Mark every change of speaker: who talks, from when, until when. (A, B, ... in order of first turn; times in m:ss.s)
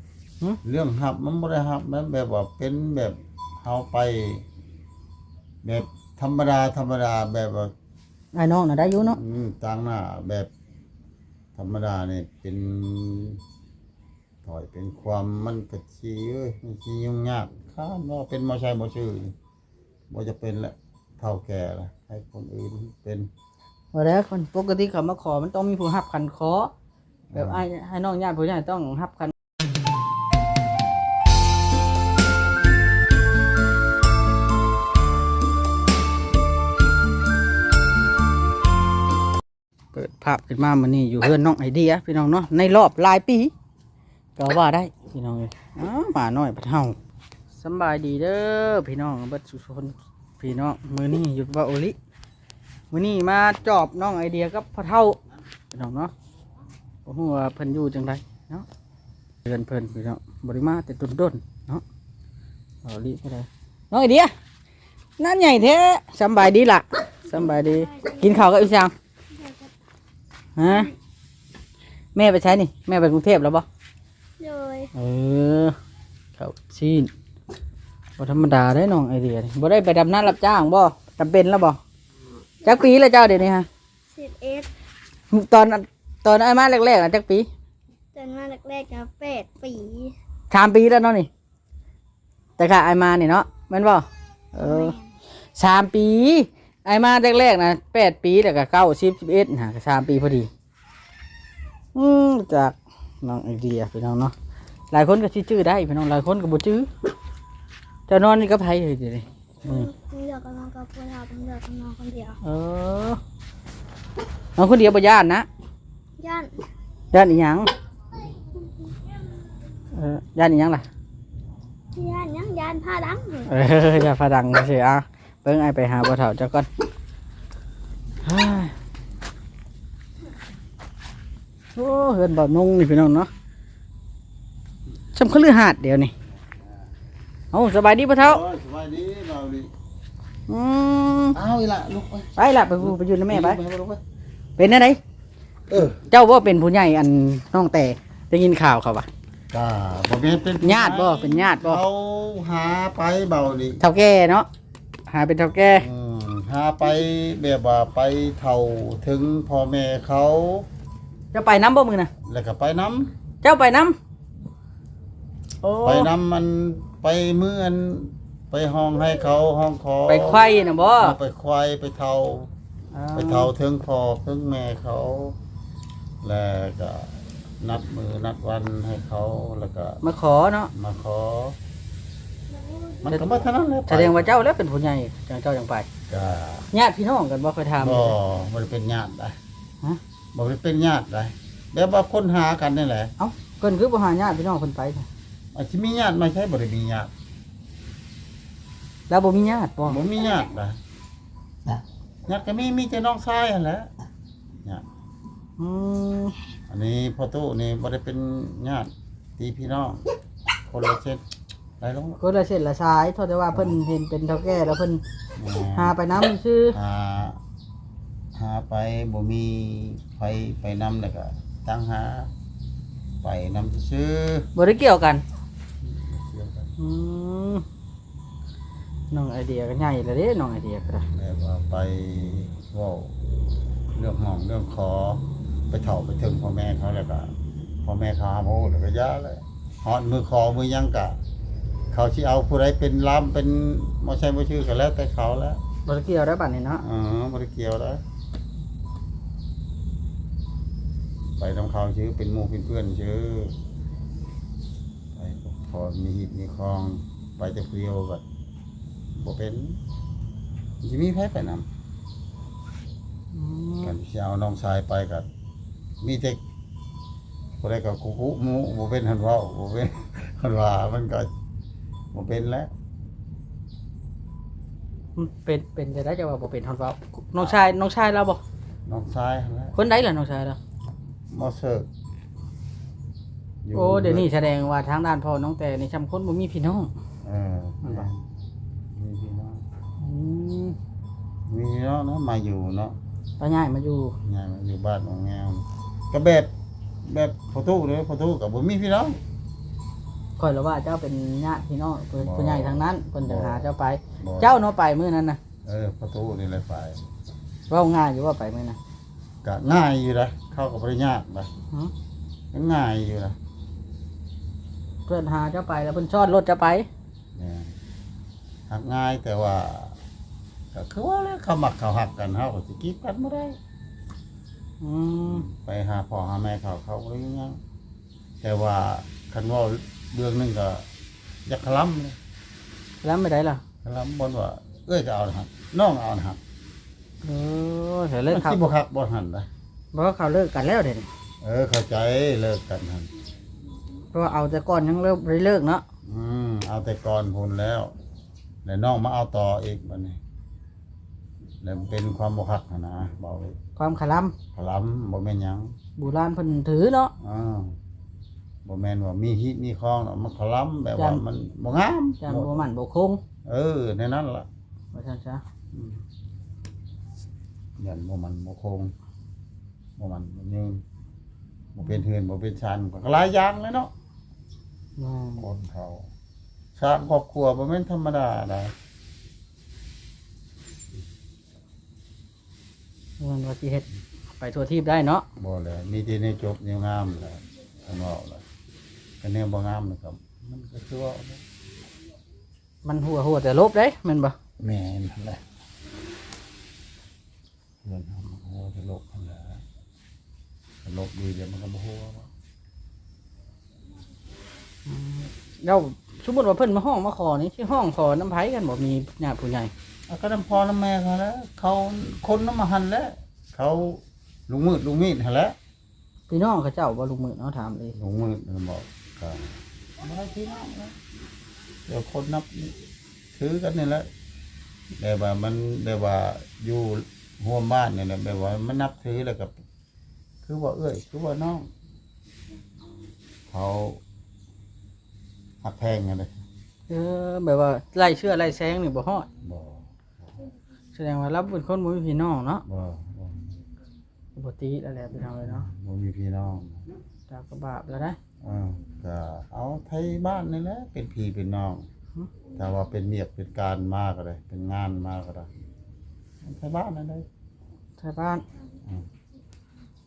0:00.6-0:04.4 A
0:05.6-0:07.7 A
0:08.3-0:09.2 B
0:09.0-0:10.5 A
0:11.6-0:13.4 A
0:14.4-0:19.4 A
0:20.1-0:23.3 A
0:23.9-0:26.7 B
0:27.3-0:27.6 A
0:27.4-0:29.3 B
0:39.9-0:43.5 B
0:44.4-0:47.0 B
0:47.6-0:52.0 B
0:52.9-0:55.2 B
0:55.7-0:56.1 B
0:57.1-0:58.7 B
0:59.4-1:01.8 B
1:02.8-1:04.3 B
1:05.2-1:08.9 B
1:07.3-1:08.5 C
1:09.3-1:09.7 C
1:10.6-1:10.9 B
1:12.2-1:13.7 B
1:14.4-1:14.9 C
1:15.0-1:15.8 B
1:16.4-1:17.1 B
1:18.2-1:21.8 B
1:22.6-1:23.7 B
1:24.1-1:24.7 C
1:25.3-1:27.5 B
1:28.1-1:30.2 C
1:30.5-1:31.3 B
1:32.6-1:35.0 B
1:34.6-1:35.0 C
1:35.6-1:40.5 B
1:41.9-1:44.3 B
1:44.9-1:46.9 B
1:48.1-1:49.9 B
1:49.6-1:52.4 C
1:52.4-1:53.2 B
1:54.6-1:55.5 B
1:56.2-1:56.7 C
1:57.1-1:57.7 B
1:59.9-2:00.9 B
2:01.9-2:03.5 C
2:03.5-2:06.7 B
2:08.2-2:08.7 B
2:11.8-2:13.3 B
2:15.1-2:16.1 B
2:17.5-2:18.4 B
2:18.2-2:19.7 A
2:20.5-2:21.4 B
2:21.3-2:24.0 A
2:22.4-2:23.6 B
2:24.6-2:25.0 B
2:25.7-2:26.0 A
2:26.0-2:29.1 B
2:29.5-2:33.8 A
2:30.6-2:31.8 B
2:33.8-2:34.5 B
2:35.1-2:35.9 B
2:35.7-2:40.7 A
2:41.3-2:42.1 B
2:42.2-2:43.1 A
2:43.4-2:44.0 B
2:45.6-2:46.1 B
2:45.8-2:52.5 A
2:50.1-2:51.2 B
2:52.9-2:53.5 B
2:53.2-2:55.4 A
2:56.2-3:00.0 A
3:00.0-3:00.7 B
3:00.7-3:01.6 A
3:03.0-3:04.4 A
3:03.9-3:05.9 B
3:06.1-3:06.7 A
3:06.7-3:08.2 B
3:07.8-3:09.4 A
3:10.3-3:13.1 A
3:13.2-3:15.1 B
3:15.6-3:17.1 A
3:19.1-3:20.0 B
3:19.9-3:20.8 A
3:22.3-3:23.9 A
3:25.6-3:26.4 B
3:26.7-3:30.0 A
3:30.7-3:31.2 A
3:31.8-3:32.2 A
3:32.2-3:35.0 B
3:33.5-3:33.8 A
3:35.4-3:36.0 A
3:35.6-3:36.8 B
3:36.7-3:37.4 A
3:38.4-3:42.3 A
3:43.2-3:44.5 A
3:44.6-3:45.2 B
3:45.8-3:46.7 A
3:46.8-3:47.6 B
3:49.1-3:51.1 B
3:51.1-3:53.1 A
3:53.9-4:01.2 A
4:01.9-4:05.6 A
4:05.9-4:06.8 B
4:06.8-4:08.0 A
4:11.4-4:13.6 A
4:15.2-4:18.2 A
4:19.2-4:19.8 A
4:20.8-4:21.7 A
4:23.3-4:24.0 B
4:23.8-4:25.3 A
4:26.0-4:26.4 A
4:27.6-4:31.3 A
4:32.1-4:32.7 A
4:35.2-4:38.4 B
4:38.9-4:39.8 A
4:39.8-4:40.6 B
4:41.3-4:41.9 A
4:43.6-4:44.3 A
4:43.7-4:46.9 B
4:47.2-4:48.3 A
4:47.8-4:48.1 B
4:48.9-4:49.6 A
4:50.0-4:50.8 B
4:51.5-4:53.0 A
4:53.4-4:54.2 B
4:54.2-4:56.5 A
4:57.0-4:59.2 A
5:00.4-5:05.4 B
5:02.2-5:04.5 A
5:05.6-5:07.0 A
5:07.7-5:08.8 B
5:09.4-5:11.5 A
5:12.5-5:13.4 A
5:15.1-5:16.9 B
5:17.4-5:17.8 A
5:18.7-5:20.0 A
5:20.7-5:23.6 A
5:24.8-5:25.5 B
5:25.2-5:27.6 A
5:28.4-5:30.8 A
5:31.5-5:32.2 A
5:33.0-5:33.6 B
5:33.8-5:36.4 A
5:37.2-5:38.6 B
5:38.3-5:39.5 A
5:39.9-5:41.1 B
5:41.4-5:43.1 A
5:44.1-5:45.8 B
5:46.0-5:48.0 A
5:48.6-5:50.2 A
5:51.6-5:53.6 A
5:53.8-5:54.4 B
5:54.5-5:55.8 A
5:56.0-5:57.1 B
5:57.2-5:57.8 A
5:58.6-6:02.6 A
6:01.0-6:01.2 B
6:02.2-6:03.2 B
6:03.4-6:04.5 A
6:04.9-6:05.4 B
6:05.7-6:06.0 A
6:07.8-6:08.9 A
6:10.0-6:10.8 A
6:11.8-6:13.9 A
6:15.0-6:15.5 B
6:15.4-6:16.1 A
6:16.8-6:18.7 A
6:23.2-6:23.9 B
6:24.4-6:25.3 B
6:25.4-6:28.4 A
6:29.2-6:31.4 A
6:32.8-6:34.4 B
6:34.6-6:35.4 A
6:37.8-6:39.6 A
6:40.8-6:42.3 A
6:44.9-6:49.7 B
6:50.1-6:55.6 A
6:56.3-6:58.0 B
6:58.0-7:01.0 A
7:01.9-7:02.8 A
7:03.4-7:04.1 A
7:05.0-7:09.5 A
7:10.4-7:11.7 A
7:13.5-7:14.0 A
7:15.6-7:16.4 A
7:16.9-7:19.3 B
7:19.4-7:19.9 A
7:20.9-7:22.6 B
7:22.7-7:23.6 A
7:24.4-7:25.7 B
7:25.4-7:26.8 A
7:27.3-7:28.2 B
7:28.4-7:31.8 A
7:32.6-7:35.5 A
7:36.4-7:37.3 A
7:38.0-7:38.4 B